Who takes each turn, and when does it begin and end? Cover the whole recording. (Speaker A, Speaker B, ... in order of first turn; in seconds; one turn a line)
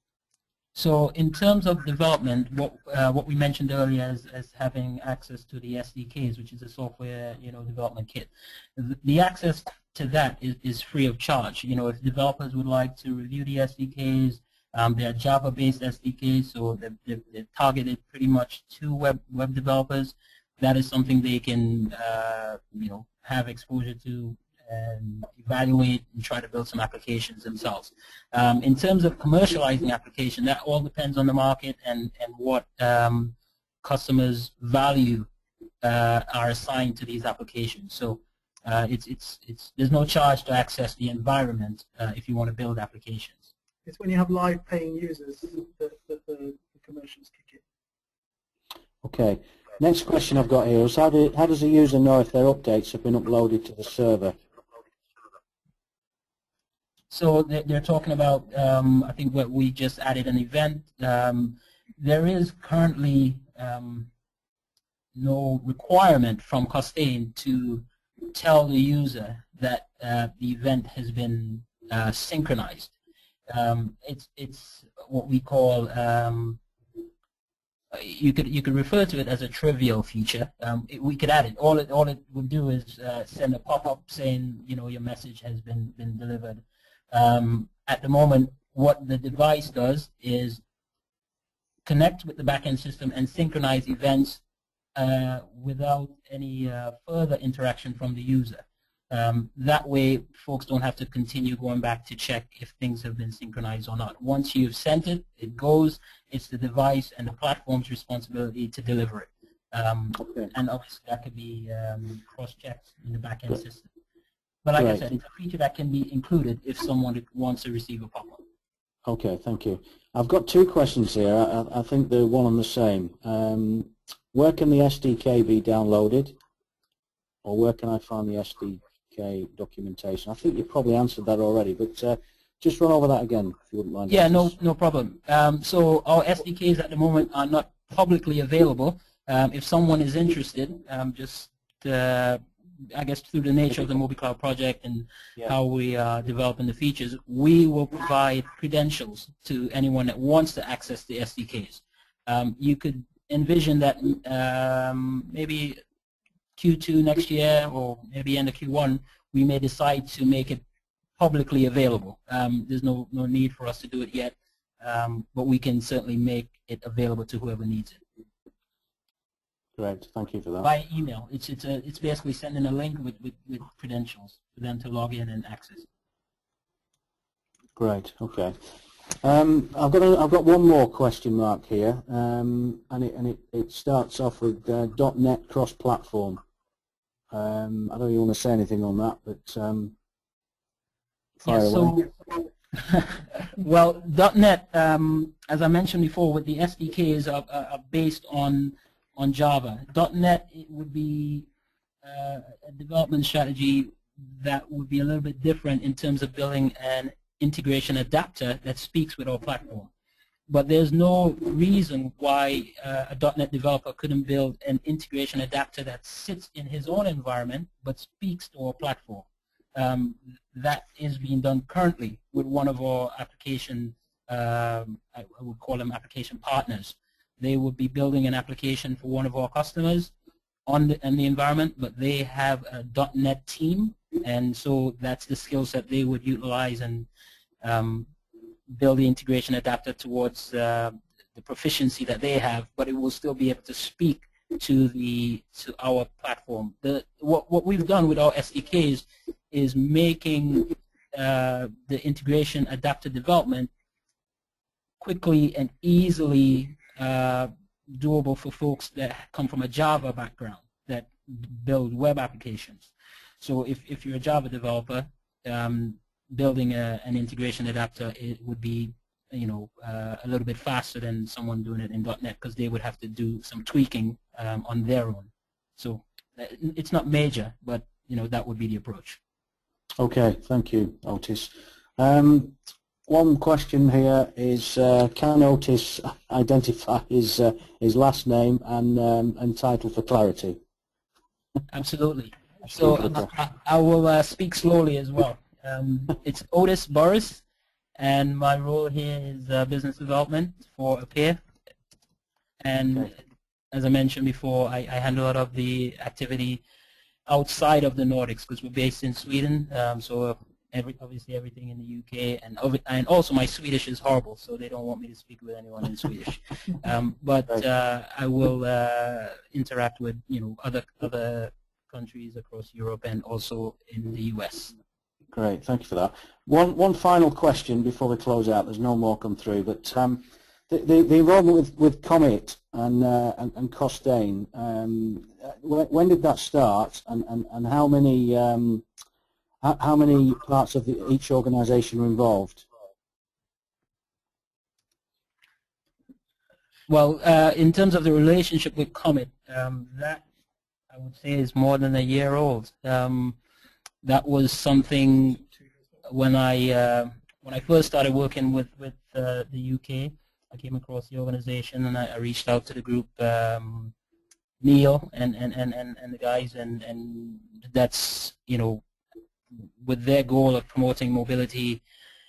Speaker A: 0.7-35.3
Speaker A: 35.8-43.5
Speaker B: 43.9-47.6
Speaker C: 49.0-54.4
Speaker A: 57.1-64.1
Speaker A: 65.1-72.9
Speaker A: 73.5-76.6
Speaker A: 77.9-90.6
Speaker A: 91.8-94.4
Speaker A: 94.9-113.9
Speaker C: 110.2-110.5
Speaker A: 114.6-118.4
Speaker C: 114.8-115.0
Speaker C: 119.0-126.3
Speaker C: 127.4-134.5
Speaker A: 134.1-155.8
Speaker A: 156.6-160.6
Speaker A: 161.2-168.0
Speaker C: 169.8-170.7
Speaker A: 170.6-175.8
Speaker C: 177.8-178.6
Speaker C: 179.2-186.4
Speaker C: 187.3-189.9
Speaker A: 191.4-201.5
Speaker C: 191.4-192.0
Speaker A: 202.0-209.9
Speaker A: 210.5-230.1
Speaker A: 230.7-237.1
Speaker A: 237.6-238.1
Speaker A: 238.7-253.7
Speaker A: 255.0-279.2
Speaker C: 280.0-290.6
Speaker A: 291.7-297.4
Speaker C: 293.0-293.3
Speaker A: 298.0-301.4
Speaker A: 302.6-303.1
Speaker A: 303.7-306.6
Speaker A: 307.3-324.7
Speaker C: 325.3-338.9
Speaker C: 339.6-342.7
Speaker A: 346.9-350.2
Speaker A: 350.9-353.4
Speaker A: 354.0-355.4
Speaker A: 356.0-363.9
Speaker A: 364.6-368.8
Speaker A: 369.8-371.8